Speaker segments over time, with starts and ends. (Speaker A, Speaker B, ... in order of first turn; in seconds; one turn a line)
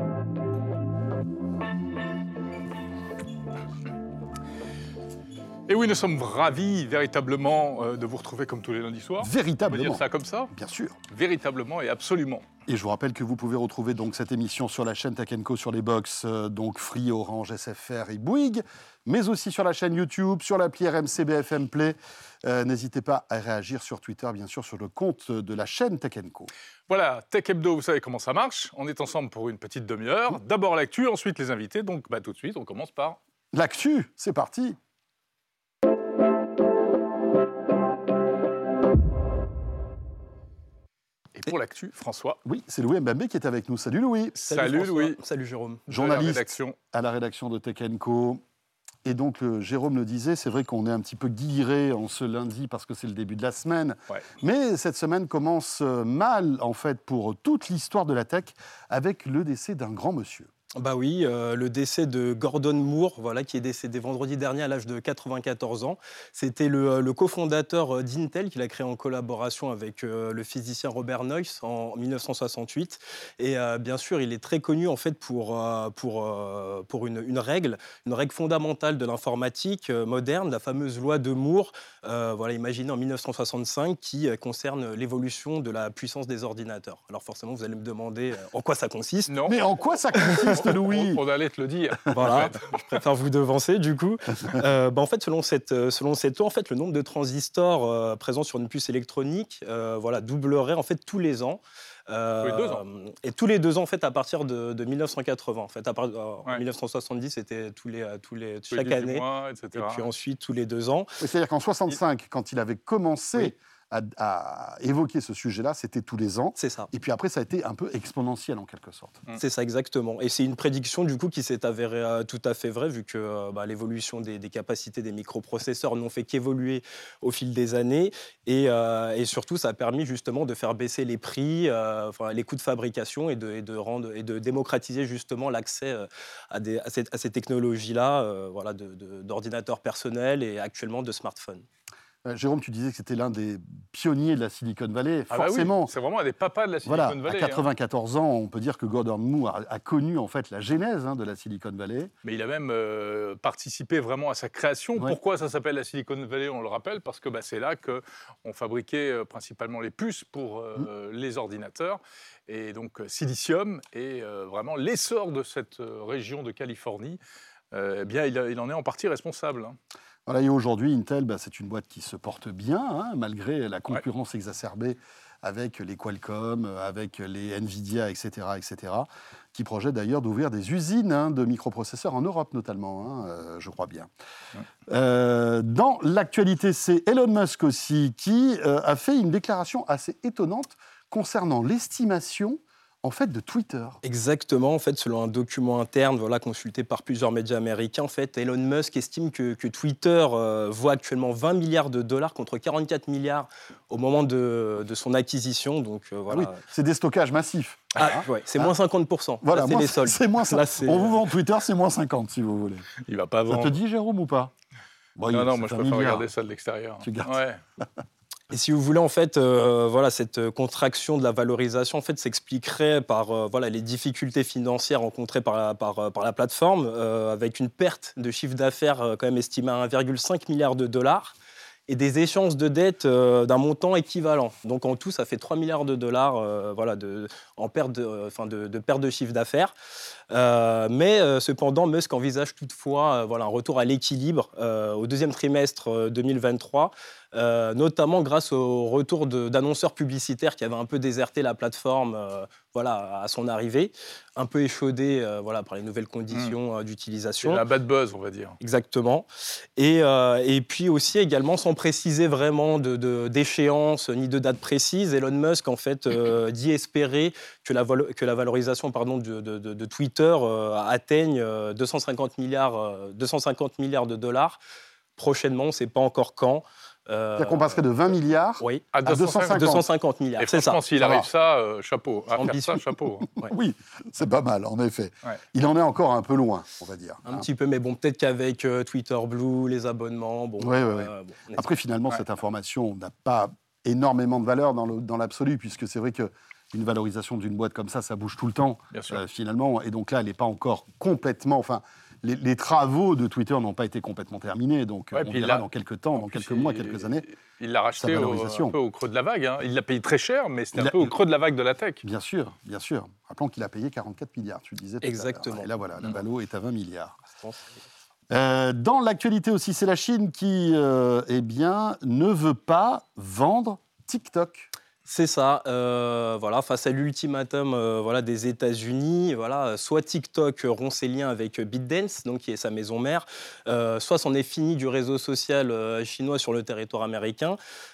Speaker A: 5.7-10.5
Speaker B: 9.2-11.0
Speaker A: 11.1-12.5
Speaker B: 12.7-26.5
Speaker A: 26.9-33.2
Speaker B: 33.5-34.8
Speaker A: 41.3-42.4
Speaker B: 42.4-44.4
Speaker A: 44.4-45.2
Speaker C: 44.4-45.8
Speaker A: 45.9-46.8
Speaker B: 45.9-48.4
Speaker B: 49.0-60.5
Speaker C: 60.8-89.3
Speaker A: 89.3-92.8
Speaker B: 89.5-91.2
Speaker C: 92.1-111.2
Speaker A: 102.4-102.8
Speaker A: 108.7-110.1
Speaker B: 111.2-119.2
Speaker C: 116.6-116.9
Speaker C: 119.3-141.7
Speaker B: 142.2-145.9
Speaker A: 145.3-147.7
Speaker B: 146.8-152.1
Speaker A: 152.2-167.2
Speaker A: 167.7-169.8
Speaker B: 170.2-184.1
Speaker B: 184.9-194.0
Speaker C: 194.0-206.6
Speaker B: 206.3-208.8
Speaker C: 208.0-211.2
Speaker B: 209.4-212.9
Speaker A: 213.0-213.8
Speaker B: 213.5-214.5
Speaker B: 215.2-216.3
Speaker A: 215.3-217.6
Speaker B: 217.0-217.4
Speaker C: 218.5-231.3
Speaker C: 231.9-239.7
Speaker C: 240.3-257.6
Speaker A: 256.3-256.6
Speaker A: 257.4-258.6
Speaker C: 258.6-274.6
Speaker C: 275.2-277.8
Speaker B: 277.4-279.9
Speaker C: 278.6-278.9
Speaker A: 278.9-279.8
Speaker C: 279.5-280.8
Speaker A: 280.4-283.2
Speaker B: 281.0-281.2
Speaker C: 282.4-283.5
Speaker B: 283.4-287.5
Speaker C: 287.2-291.7
Speaker B: 290.6-307.2
Speaker A: 298.9-299.2
Speaker A: 305.1-305.6
Speaker A: 306.1-312.0
Speaker B: 308.0-308.8
Speaker B: 310.7-311.1
Speaker B: 312.0-317.2
Speaker C: 315.0-315.7
Speaker C: 317.3-317.7
Speaker B: 318.3-324.7
Speaker C: 325.1-337.6